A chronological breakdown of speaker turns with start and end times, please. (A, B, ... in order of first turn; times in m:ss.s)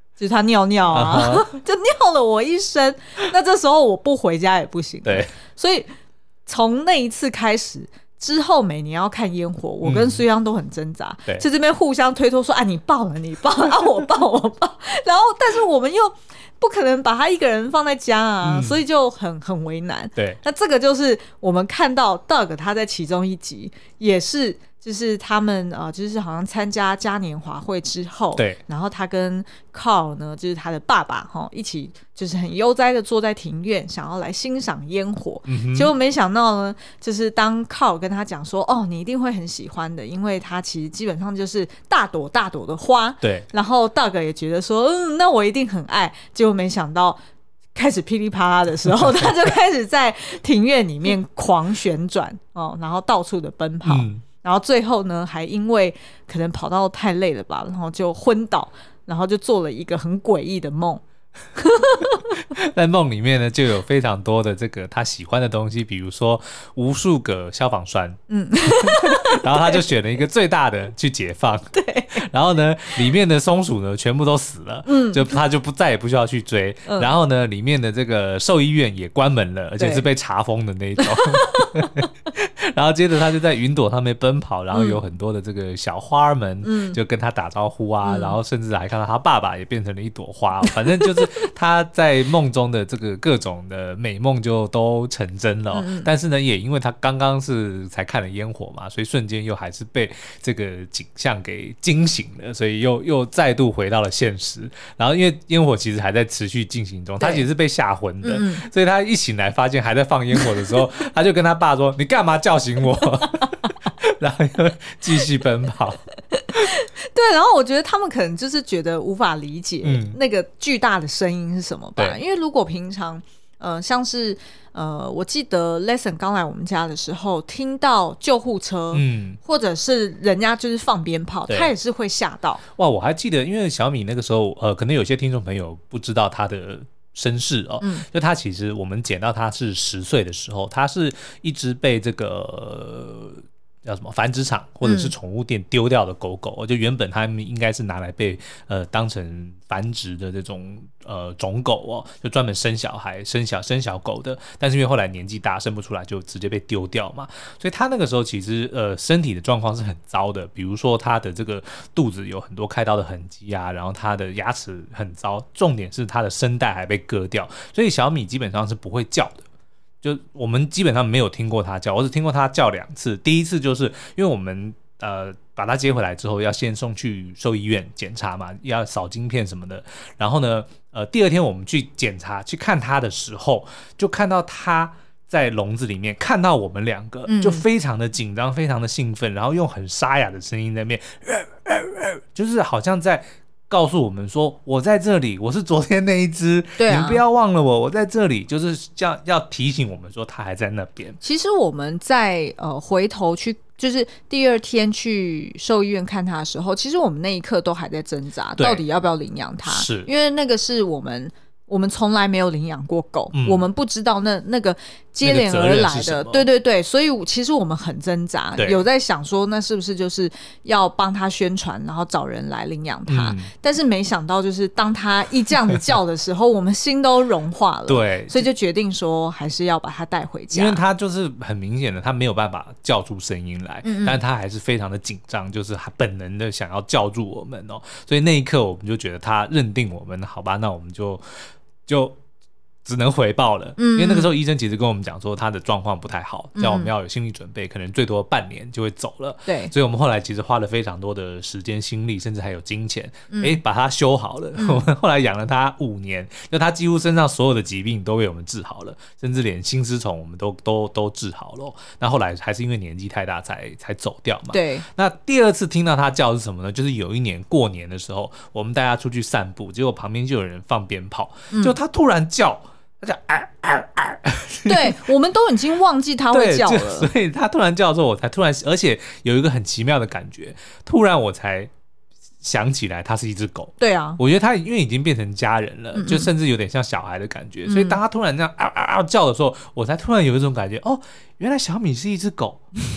0:00.2-0:05.9 A
0:00.9-0:01.5 B
0:05.0-0:05.3 B
0:06.5-0:47.2 A
0:09.8-0:10.2 B
0:18.4-0:18.8 B
0:35.5-0:35.9 B
0:43.2-0:43.5 B
0:47.8-1:01.0 A
0:53.8-0:54.2 B
1:01.6-1:02.4 A
1:02.4-1:56.0 B
1:08.3-1:09.8 A
1:11.7-1:12.2 A
1:14.9-1:15.3 A
1:16.9-1:17.1 A
1:19.8-1:20.1 A
1:21.0-1:21.9 A
1:24.7-1:25.0 A
1:26.6-1:27.0 A
1:28.0-1:28.4 A
1:35.7-1:36.1 A
1:47.2-1:47.4 A
1:48.2-1:48.7 A
1:56.3-2:12.6 A
1:59.8-2:00.2 B
2:08.9-2:09.4 B
2:12.8-2:49.4 B
2:24.8-2:25.1 A
2:50.0-3:21.2 B
3:07.3-3:07.6 A
3:16.8-3:17.2 A
3:21.2-3:50.8 A
3:28.6-3:28.8 B
3:29.7-3:30.1 B
3:33.3-3:33.6 B
3:35.2-3:36.5 B
3:38.6-3:38.8 B
3:43.1-3:43.5 B
3:47.9-3:48.5 B
3:50.5-4:01.2 B
3:53.8-3:54.2 A
4:01.9-4:02.2 B
4:02.8-4:35.0 B
4:03.8-4:04.4 A
4:06.6-4:06.9 A
4:09.5-4:09.7 A
4:13.3-4:13.6 A
4:14.6-4:14.8 A
4:24.5-4:24.9 A
4:31.5-4:31.8 A
4:34.7-4:37.1 A
4:36.3-4:41.7 B
4:42.4-4:52.6 B
4:43.8-4:44.2 A
4:46.0-4:46.3 A
4:47.7-4:48.0 A